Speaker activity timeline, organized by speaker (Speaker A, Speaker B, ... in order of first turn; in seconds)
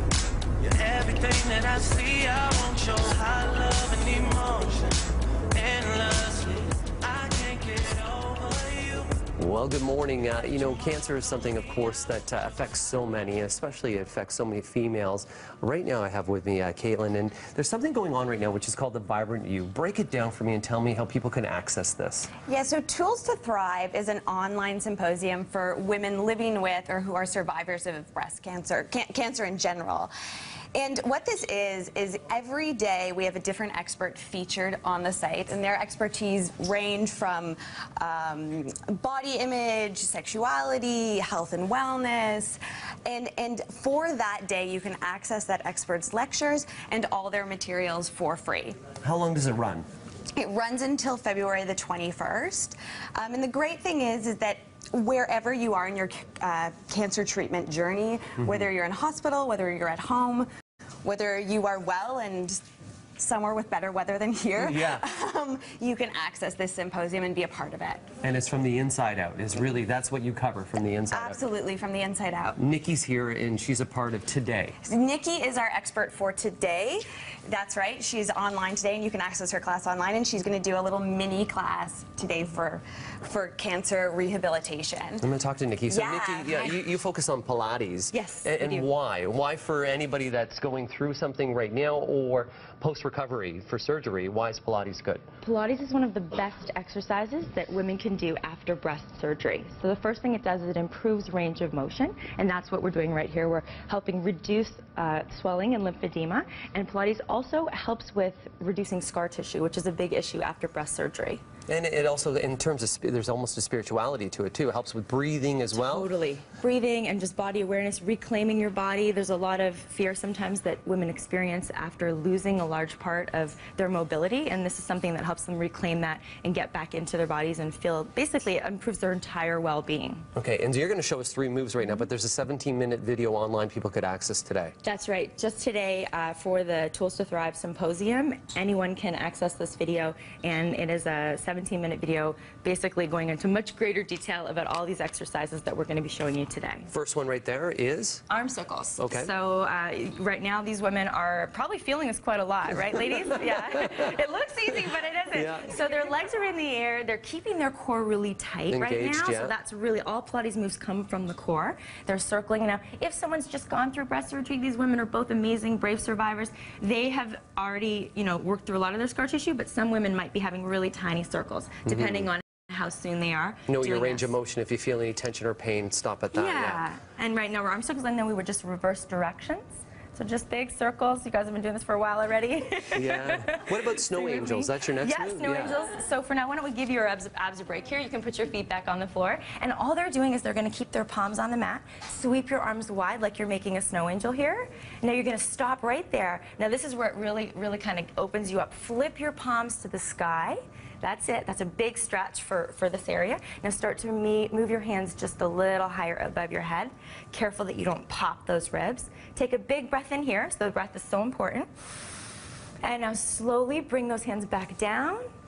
Speaker A: 0.6-4.9, 5.5-9.2
Speaker B: 9.4-22.3, 49.0-49.9, 58.4-58.7, 64.6-65.0, 68.2-71.4, 72.6-74.8, 85.2-95.2, 111.7-116.1, 130.3-134.7, 146.9-148.2, 149.0-149.3, 153.2-154.1, 155.3-155.9, 158.7-159.5, 171.8-172.3, 173.7-176.8, 182.9-185.8
Speaker C: 22.4-30.1, 30.7-48.8, 50.4-60.5, 61.0-62.6, 63.2-68.1, 71.1-72.6, 74.8-85.2, 85.9-86.8
Speaker D: 88.1-88.9, 95.4-111.4, 115.7-130.2, 134.8-146.9, 148.3-174.3, 176.3-211.7, 212.8-215.2